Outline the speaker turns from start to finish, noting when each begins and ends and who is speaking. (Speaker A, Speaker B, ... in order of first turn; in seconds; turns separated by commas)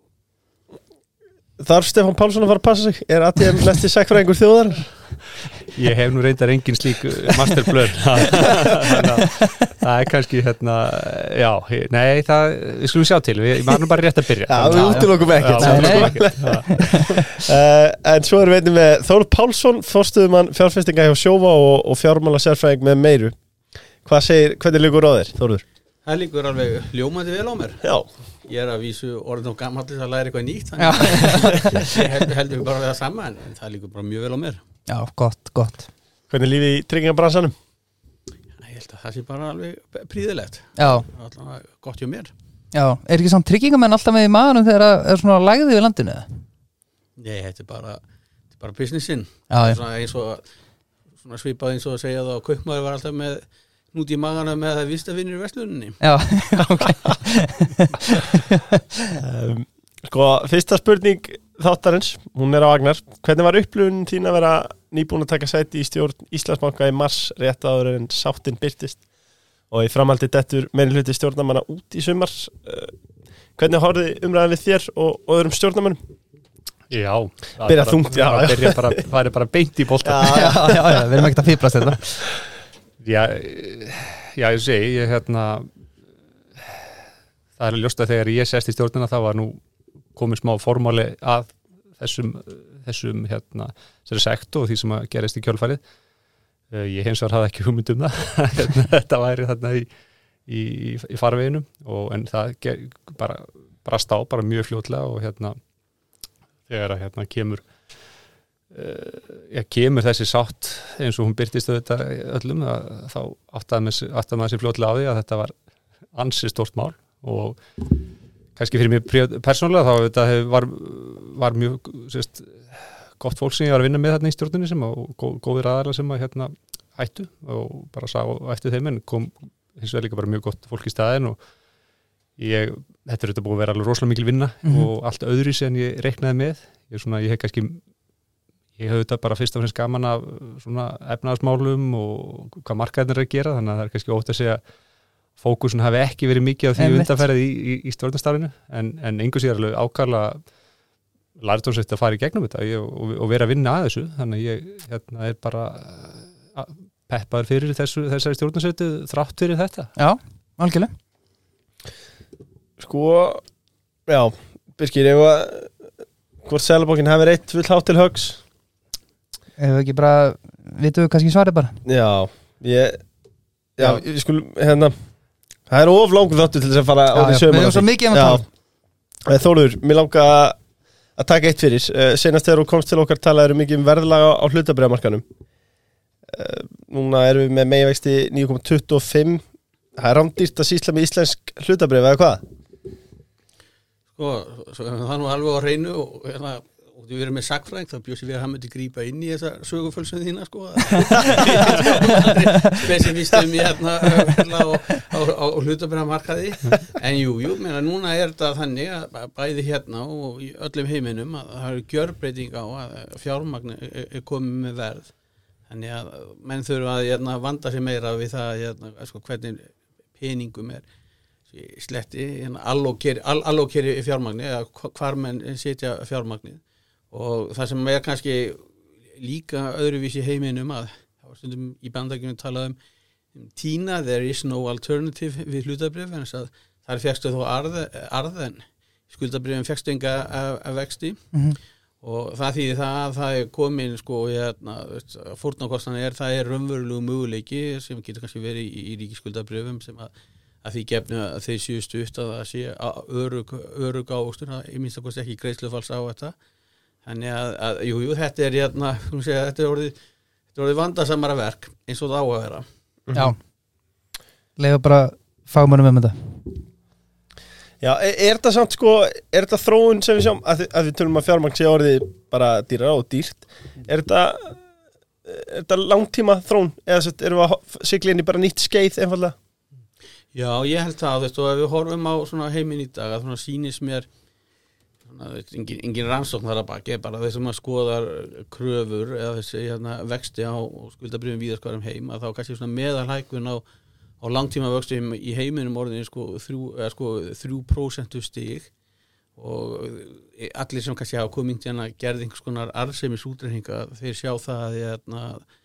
Speaker A: 1.6-4.9, Speaker B: 5.7-16.9, Speaker A: 14.5-23.4, Speaker C: 14.6-17.3, Speaker A: 24.0-25.6, Speaker D: 26.0-27.9, Speaker A: 27.8-28.1, Speaker D: 28.4-34.6, Speaker C: 30.8-31.7, Speaker C: 34.9-35.9, Speaker A: 36.3-37.5, Speaker D: 38.6-42.3, Speaker C: 40.8-41.1, Speaker C: 42.7-46.3, Speaker D: 47.2-48.0, Speaker D: 48.5-50.5, Speaker C: 49.5-49.8, Speaker D: 51.2-56.0, Speaker C: 56.0-58.4, Speaker A: 59.2-69.0, Speaker A: 69.7-72.9, Speaker A: 73.6-76.0, Speaker B: 76.9-80.6, Speaker A: 77.6-79.0, Speaker A: 80.0-81.0, Speaker C: 80.3-82.2, Speaker B: 83.0-85.7, Speaker B: 86.5-87.0, Speaker B: 87.6-89.6, Speaker B: 90.1-95.8, Speaker B: 96.7-99.9, Speaker B: 100.5-105.6, Speaker B: 106.7-107.7, Speaker B: 108.7-115.5, Speaker B: 116.1-117.6, Speaker B: 118.5-131.4, Speaker B: 132.4-137.8, Speaker B: 138.8-144.6, Speaker B: 145.3-150.4, Speaker C: 146.8-147.2, Speaker B: 151.4-159.9, Speaker C: 160.0-160.9, Speaker A: 162.8-163.4, Speaker A: 164.1-165.9, Speaker A: 166.4-168.4, Speaker C: 169.6-171.8, Speaker A: 171.8-173.0, Speaker A: 173.8-174.9, Speaker A: 175.7-178.4, Speaker C: 177.1-178.4, Speaker A: 179.2-180.6, Speaker A: 181.2-185.2, Speaker A: 186.3-189.4, Speaker A: 189.9-192.4, Speaker D: 194.1-215.1, Speaker C: 202.2-202.9, Speaker D: 215.7-220.8, Speaker D: 221.5-232.8, Speaker D: 233.3-241.4, Speaker C: 241.3-241.6, Speaker D: 242.0-250.1, Speaker D: 250.6-256.3, Speaker D: 257.0-259.9, Speaker D: 260.5-262.7, Speaker A: 263.1-263.3, Speaker C: 264.6-266.6, Speaker A: 267.8-274.6, Speaker A: 275.2-279.3, Speaker D: 280.3-284.1, Speaker D: 285.0-293.6, Speaker D: 294.2-298.7, Speaker D: 299.4-305.4